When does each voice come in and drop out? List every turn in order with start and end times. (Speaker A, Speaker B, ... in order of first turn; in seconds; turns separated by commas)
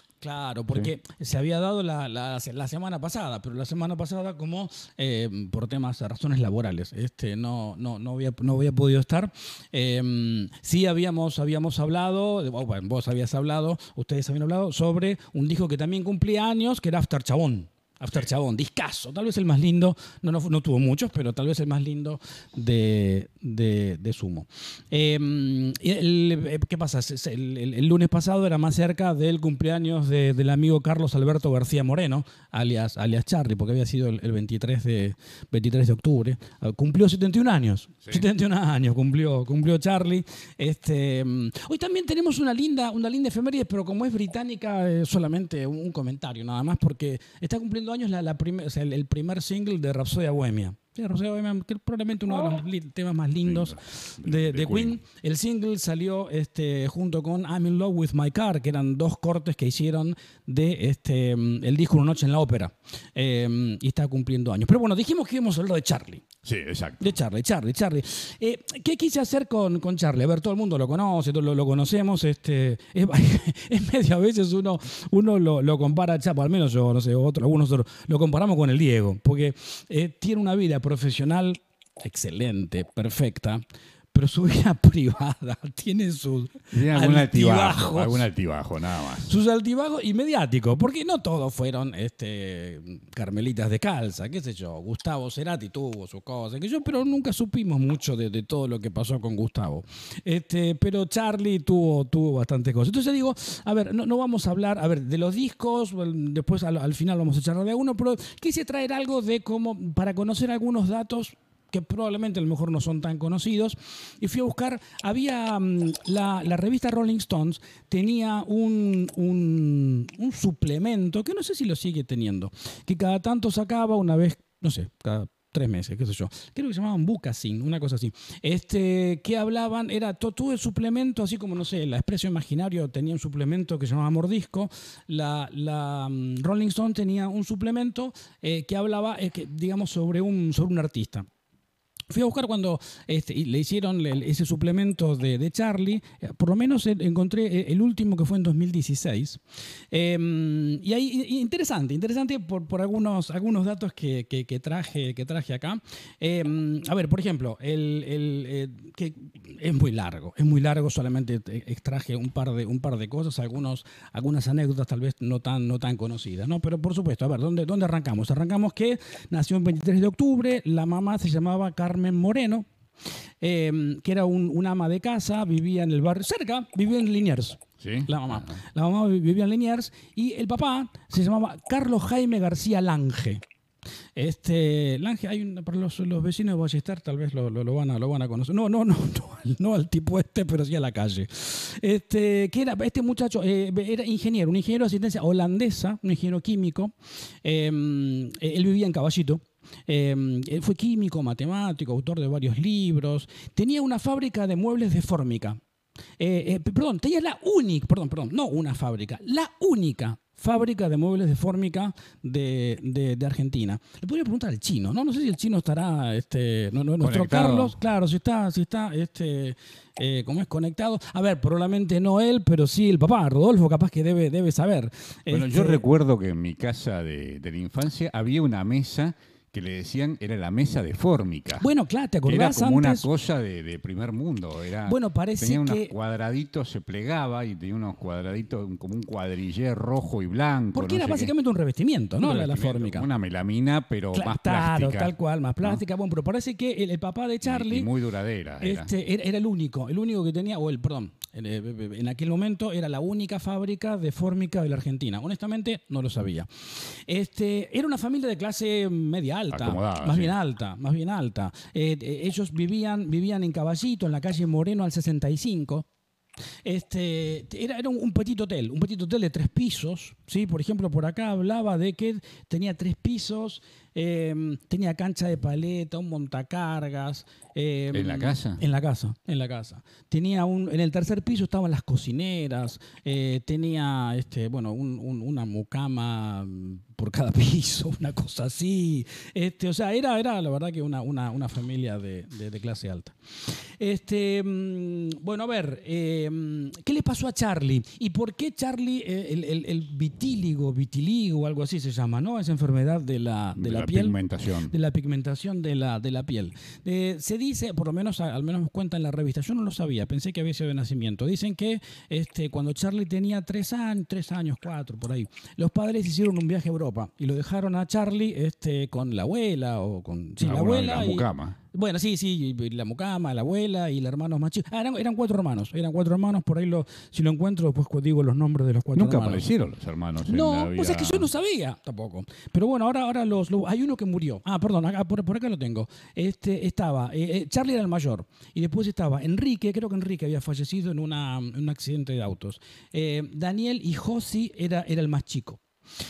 Speaker A: 0.2-66.2, Speaker B: 53.4-55.0, Speaker B: 66.4-67.1, Speaker A: 67.0-88.3, Speaker B: 86.7-89.3, Speaker A: 89.3-141.2, Speaker A: 142.1-172.7, Speaker A: 173.4-183.4, Speaker B: 177.8-178.6, Speaker A: 184.2-205.6, Speaker A: 206.2-225.8, Speaker B: 217.0-217.8, Speaker B: 225.3-231.7, Speaker A: 231.6-233.1, Speaker B: 232.2-241.3, Speaker A: 234.8-235.9, Speaker A: 240.7-243.1, Speaker B: 242.2-245.8, Speaker A: 244.1-247.9, Speaker B: 247.4-248.9, Speaker A: 248.6-265.9, Speaker B: 259.5-260.3, Speaker A: 266.6-304.1, Speaker B: 277.9-278.6, Speaker B: 303.6-304.7, Speaker A: 304.7-329.4, Speaker B: 320.4-321.6, Speaker B: 328.9-331.3, Speaker A: 330.3-345.6